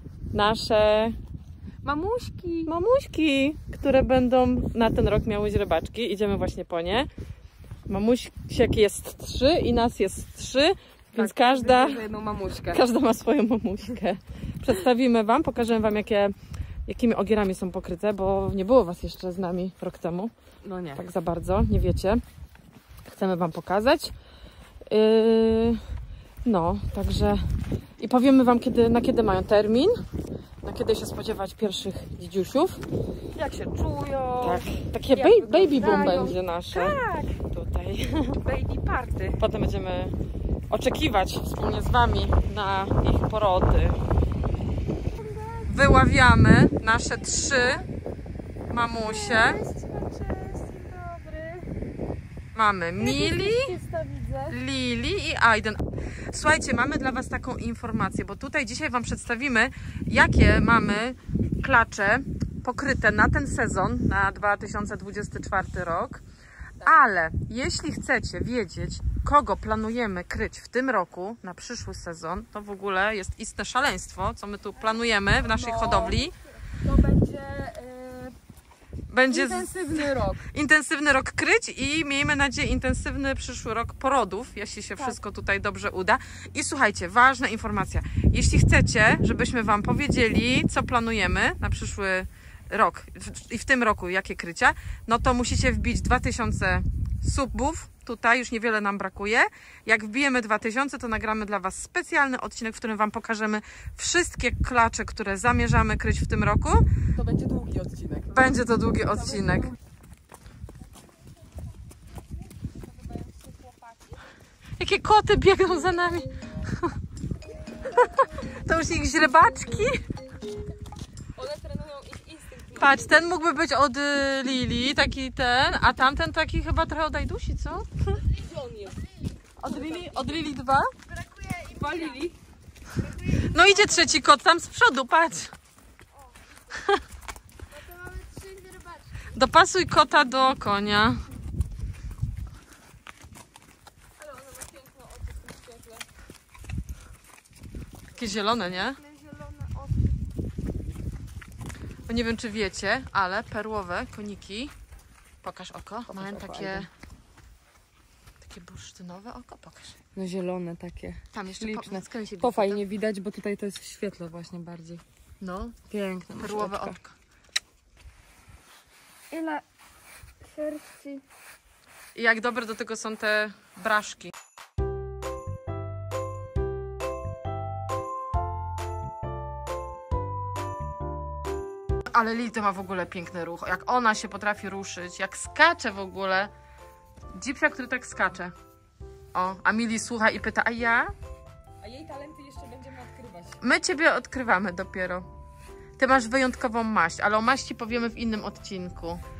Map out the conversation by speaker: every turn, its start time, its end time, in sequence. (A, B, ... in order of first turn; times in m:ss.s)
0:00.3-0:01.2 A
0:01.8-0:02.7 B
0:02.6-0:07.1 A
0:07.9-0:12.0 A
0:11.1-0:12.8 B
0:12.7-0:16.3 A
0:16.8-0:20.3 A
0:20.6-0:21.0 B
0:20.9-0:22.2 A
0:23.0-0:24.1 A
0:24.9-0:25.8 A
0:26.4-0:27.4 A
0:28.0-0:30.0 A
0:30.6-0:32.8 A
0:33.3-0:37.4 B
0:34.4-0:38.4 A
0:38.4-0:39.4 B
0:39.4-0:40.1 A
0:40.7-0:44.0 A
0:45.1-0:45.7 B
0:45.7-0:47.9 A
0:47.0-0:47.8 B
0:48.7-0:49.6 A
0:48.9-0:51.7 B
0:52.5-0:53.8 A
0:53.0-0:54.6 B
0:54.5-1:06.2 A
1:06.8-1:16.3 A
1:14.8-1:18.3 B
1:19.1-1:46.8 A
1:19.3-1:20.4 B
1:47.1-1:48.6 B
1:48.3-1:49.7 A
1:52.2-1:54.3 B
1:54.8-1:56.9 A
1:57.9-2:00.0 A
2:01.3-2:03.3 B
2:02.7-2:08.2 A
2:08.2-2:10.5 B
2:09.6-2:10.9 A
2:11.1-2:12.4 B
2:13.0-2:13.9 B
2:13.2-2:15.5 A
2:16.7-2:17.0 A
2:17.7-2:19.2 B
2:19.3-2:21.2 A
2:24.2-2:26.1 B
2:28.1-2:29.0 A
2:28.5-2:30.1 B
2:32.0-2:34.7 A
2:35.4-2:36.9 A
2:36.1-2:36.9 B
2:38.4-2:40.0 A
2:40.1-2:45.0 B
2:41.3-2:42.8 A
2:45.4-2:45.8 A
2:45.9-2:47.0 B
2:46.3-2:47.2 A
2:49.3-2:49.6 B
2:50.5-2:51.2 B
2:52.1-2:54.3 A
3:02.1-3:06.5 A
3:07.3-3:08.5 A
3:09.3-3:11.1 A
3:11.8-3:13.6 B
3:13.6-3:15.2 A
3:16.0-3:19.2 A